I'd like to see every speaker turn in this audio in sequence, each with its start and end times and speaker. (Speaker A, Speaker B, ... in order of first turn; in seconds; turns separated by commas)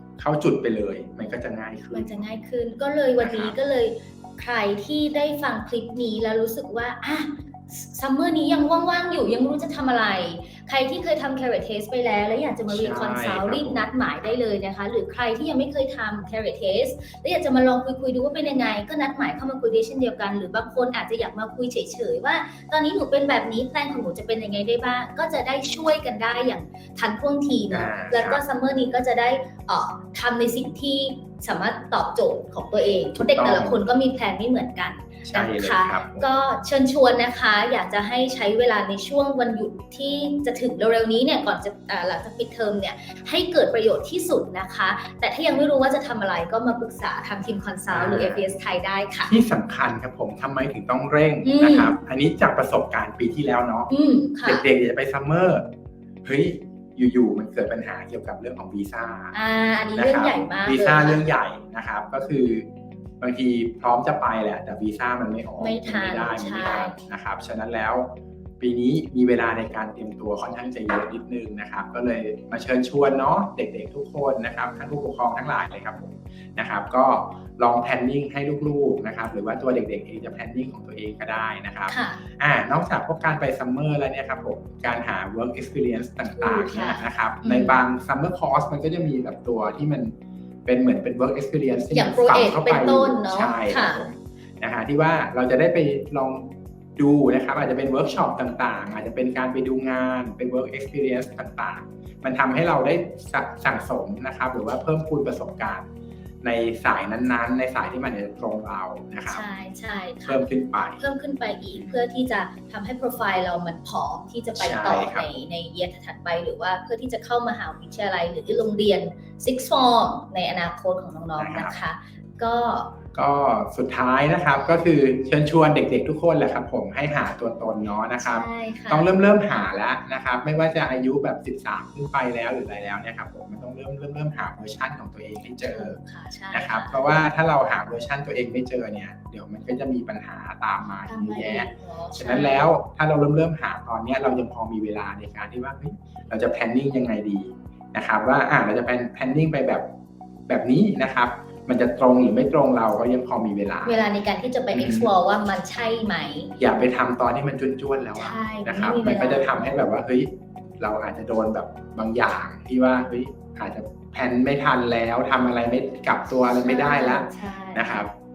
Speaker A: 0.2-2.2, Speaker B: 1.9-49.3, Speaker A: 3.2-3.6, Speaker A: 12.7-13.8, Speaker A: 27.7-28.4, Speaker A: 33.1-33.9, Speaker A: 35.2-36.3, Speaker A: 47.9-48.5, Speaker A: 49.3-53.9, Speaker B: 51.4-52.0, Speaker B: 53.9-54.6, Speaker A: 54.4-55.7, Speaker A: 56.2-59.4, Speaker B: 59.3-61.2, Speaker A: 60.0-62.7, Speaker A: 63.2-90.1, Speaker B: 65.6-67.0, Speaker B: 81.9-82.2, Speaker B: 86.3-87.8, Speaker A: 90.6-105.9, Speaker B: 91.9-94.0, Speaker A: 106.4-109.4, Speaker B: 109.3-110.4, Speaker A: 110.2-111.0, Speaker B: 111.0-123.0, Speaker A: 111.7-112.0, Speaker A: 114.5-115.3, Speaker A: 121.4-121.8, Speaker A: 123.1-136.0, Speaker B: 128.2-129.1, Speaker B: 135.6-137.0, Speaker A: 136.5-149.8, Speaker B: 141.0-142.7, Speaker A: 150.5-154.0, Speaker B: 153.8-156.5, Speaker A: 154.7-155.1, Speaker A: 156.6-168.1, Speaker B: 158.2-159.8, Speaker B: 166.6-168.1